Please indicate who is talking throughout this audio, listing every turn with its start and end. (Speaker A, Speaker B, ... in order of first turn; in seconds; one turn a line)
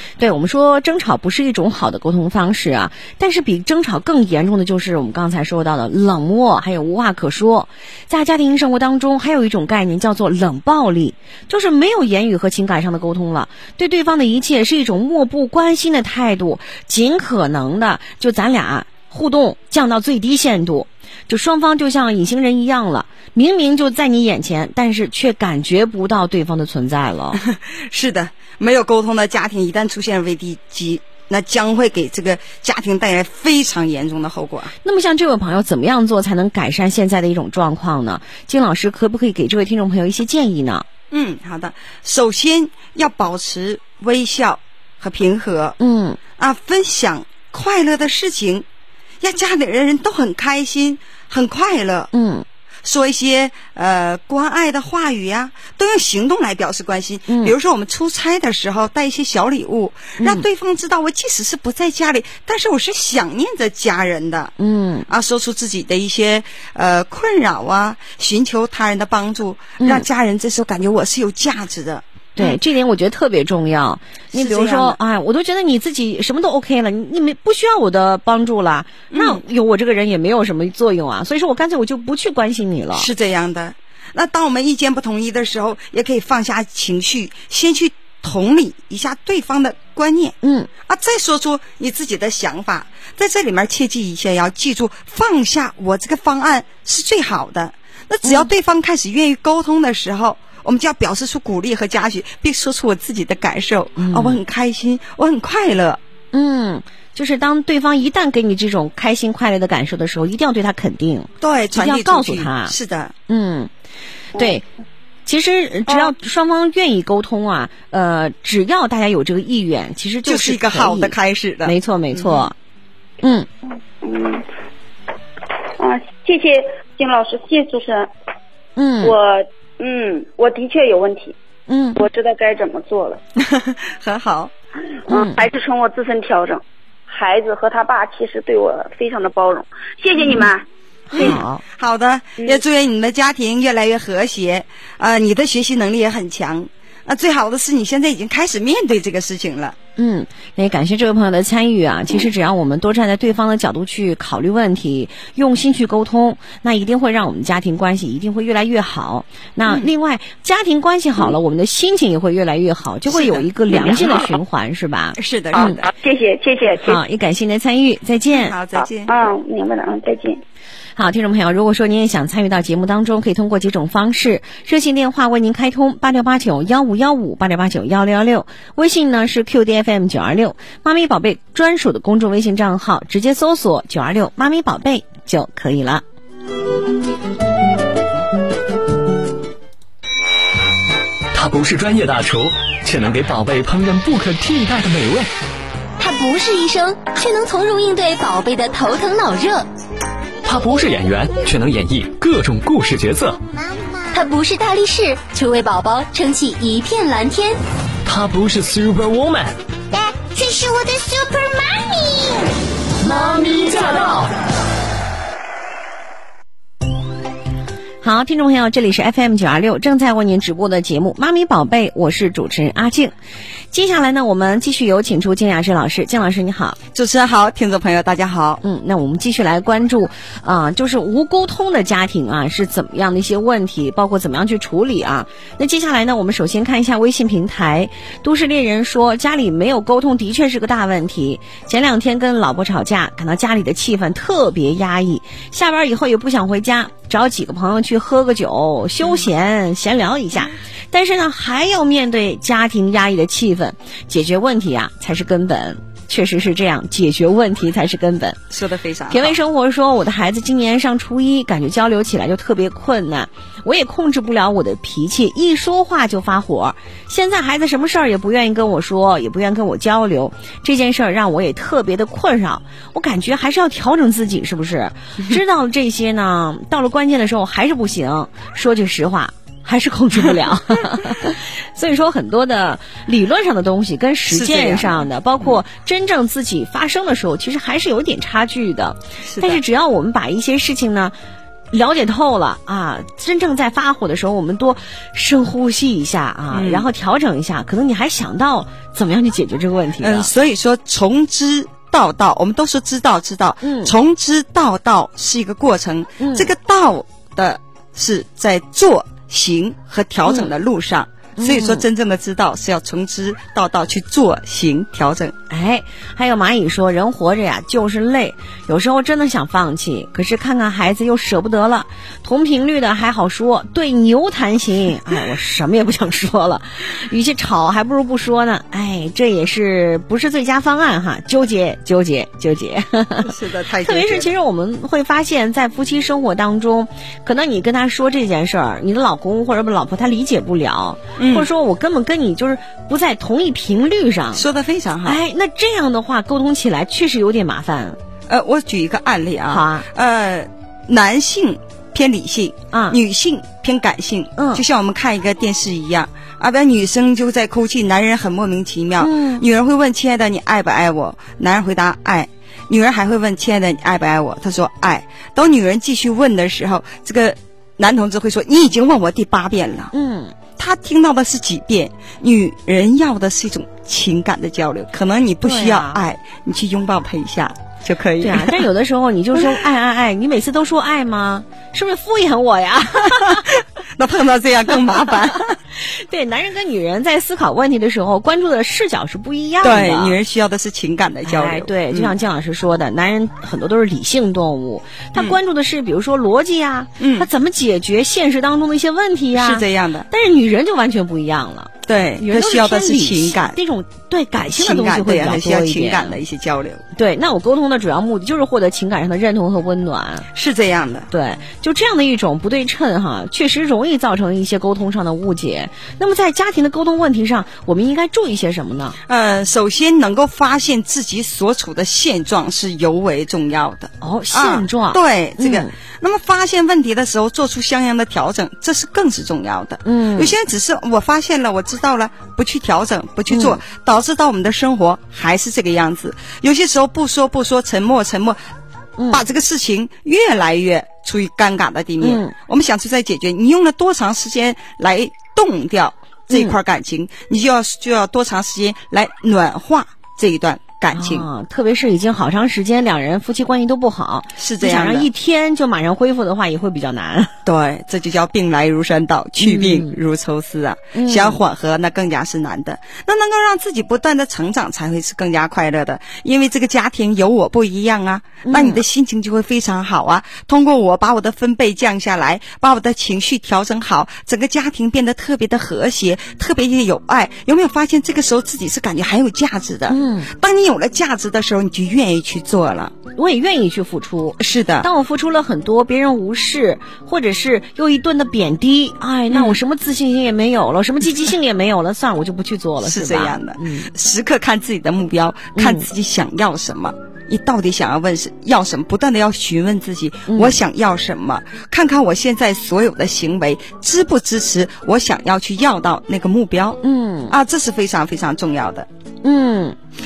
Speaker A: 0.2-27.4
Speaker B: 27.4-34.7
Speaker A: 34.8-40.9
Speaker B: 41.1-45.8
Speaker A: 45.8-46.2
Speaker B: 46.4-48.7
Speaker B: 49.2-52.1
Speaker A: 52.1-52.5
Speaker B: 52.8-64.5
Speaker A: 57.3-57.5
Speaker A: 60.2-60.5
Speaker A: 64.6-65.1
Speaker B: 65.1-72.6
Speaker A: 69.8-70.1
Speaker A: 72.4-83.1
Speaker B: 74.3-75.0
Speaker B: 79.1-79.4
Speaker B: 82.9-106.0
Speaker A: 90.4-90.7
Speaker A: 98.2-98.5
Speaker A: 104.0-104.4
Speaker A: 106.3-112.8
Speaker B: 111.4-113.1
Speaker A: 113.3-113.7
Speaker A: 114.4-114.6
Speaker A: 115.3-122.5
Speaker B: 115.9-116.1
Speaker B: 120.2-122.5
Speaker A: 123.2-123.5
Speaker C: 124.0-124.5
Speaker C: 125.8-128.1
Speaker A: 128.8-129.2
Speaker C: 129.0-131.4
Speaker A: 131.7-132.0
Speaker C: 132.0-133.2
Speaker B: 133.4-134.5
Speaker C: 135.1-140.7
Speaker A: 135.1-135.4
Speaker A: 141.1-141.6
Speaker B: 141.1-149.8
Speaker A: 150.0-165.8
Speaker B: 163.1-164.3
Speaker B: 165.2-165.7
Speaker C: 165.6-167.0
Speaker A: 166.8-168.6
Speaker B: 168.3-169.1
Speaker C: 169.1-170.4
Speaker A: 171.0-186.0
Speaker D: 191.3-195.3
Speaker E: 196.0-199.7
Speaker D: 200.4-203.4
Speaker E: 204.0-207.6
Speaker D: 208.1-209.5
Speaker E: 209.9-212.6
Speaker D: 213.0-214.3
Speaker A: 218.0-223.1
Speaker A: 223.7-226.8
Speaker B: 226.9-228.6
Speaker A: 228.6-258.4
Speaker B: 258.5-259.4
Speaker A: 259.1-291.1
Speaker B: 284.3-285.6
Speaker B: 289.2-289.6
Speaker A: 291.7-300.3
Speaker B: 296.5-296.9
Speaker B: 300.0-315.4
Speaker A: 303.6-303.9
Speaker A: 306.2-306.5
Speaker A: 311.4-311.9
Speaker A: 315.5-344.5
Speaker B: 333.2-334.3
Speaker B: 341.2-341.5
Speaker B: 344.3-345.2
Speaker A: 345.1-348.0
Speaker B: 348.3-369.9
Speaker A: 349.5-349.9
Speaker A: 352.7-353.0
Speaker A: 354.4-354.6
Speaker A: 359.0-359.4
Speaker A: 369.9-370.4
Speaker B: 370.6-378.6
Speaker A: 375.4-376.0
Speaker A: 378.2-383.5
Speaker B: 379.4-379.6
Speaker B: 383.1-385.6
Speaker A: 385.8-390.2
Speaker B: 389.6-392.1
Speaker A: 391.2-406.2
Speaker B: 397.0-397.3
Speaker B: 399.3-400.1
Speaker B: 401.9-403.6
Speaker B: 404.5-406.8
Speaker A: 406.9-410.3
Speaker B: 410.3-411.1
Speaker A: 411.1-419.0
Speaker B: 419.1-438.4
Speaker A: 424.0-425.7
Speaker A: 429.9-430.3
Speaker A: 433.3-433.6
Speaker A: 439.0-439.2
Speaker B: 439.1-451.3
Speaker A: 442.0-442.3
Speaker A: 446.3-446.6
Speaker A: 450.9-457.3
Speaker B: 454.4-455.1
Speaker B: 457.4-482.9
Speaker A: 459.4-459.9
Speaker A: 460.9-461.4
Speaker A: 468.4-468.8
Speaker A: 479.9-480.3
Speaker A: 483.2-493.9
Speaker B: 484.4-484.9
Speaker B: 489.3-489.6
Speaker B: 492.8-508.9
Speaker A: 495.6-495.9
Speaker A: 500.3-500.6
Speaker A: 506.8-507.3
Speaker A: 509.2-509.8